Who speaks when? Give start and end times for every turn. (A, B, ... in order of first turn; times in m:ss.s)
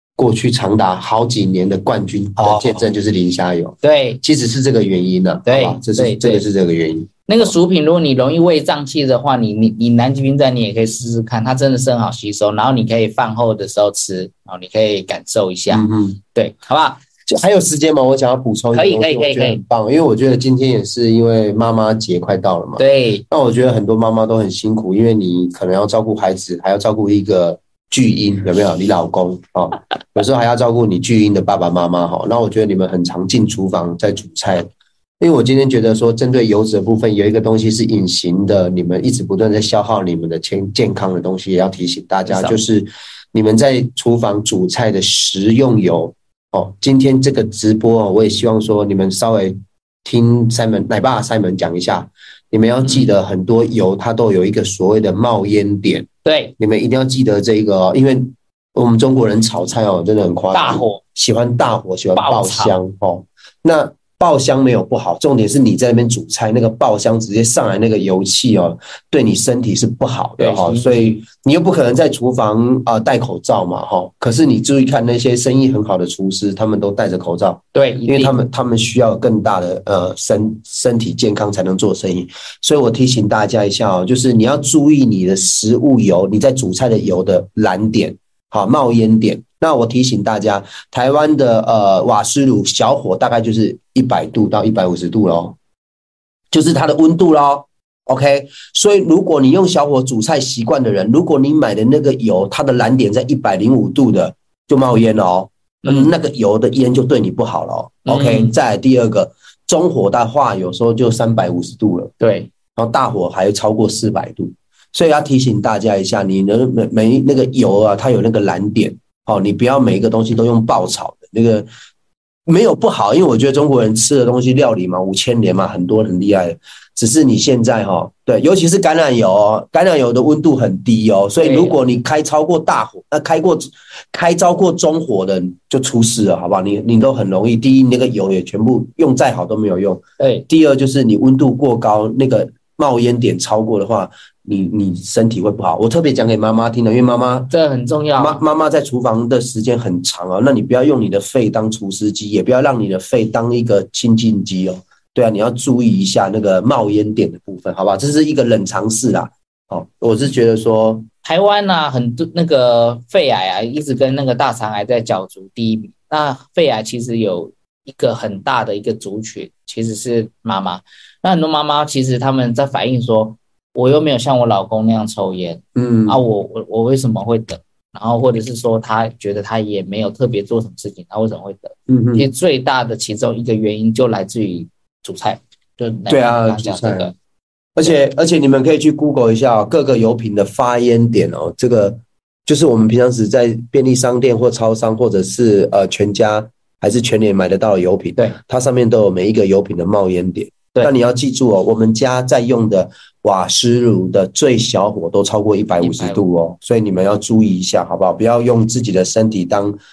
0:00.2-0:07.5 A
0:02.4-0:02.9 B
0:03.8-0:04.2 B
0:05.5-0:06.4 B
0:07.3-0:17.0 B
0:15.7-0:16.2 A
0:17.3-0:56.1 A
0:18.7-0:19.6 B
0:22.8-0:23.2 B
0:42.3-0:42.6 B
0:52.8-0:53.1 B
0:56.2-0:56.6 B
0:56.6-1:35.6 A
1:00.5-1:01.0 B
1:02.2-1:02.8 B
1:10.4-1:11.2 B
1:17.7-1:18.4 B
1:36.5-1:52.1 A
1:45.8-1:46.1 B
1:48.1-1:48.6 B
1:52.2-1:52.5 B
1:52.8-2:01.7 A
2:02.5-2:27.5 A
2:11.4-2:11.8 B
2:20.2-2:20.5 B
2:27.5-2:28.4 B
2:28.2-2:41.1 A
2:41.2-3:07.1 B
2:55.8-2:56.2 A
3:01.9-3:02.3 A
3:06.1-3:07.1 A
3:07.8-3:29.8 A
3:25.8-3:26.2 B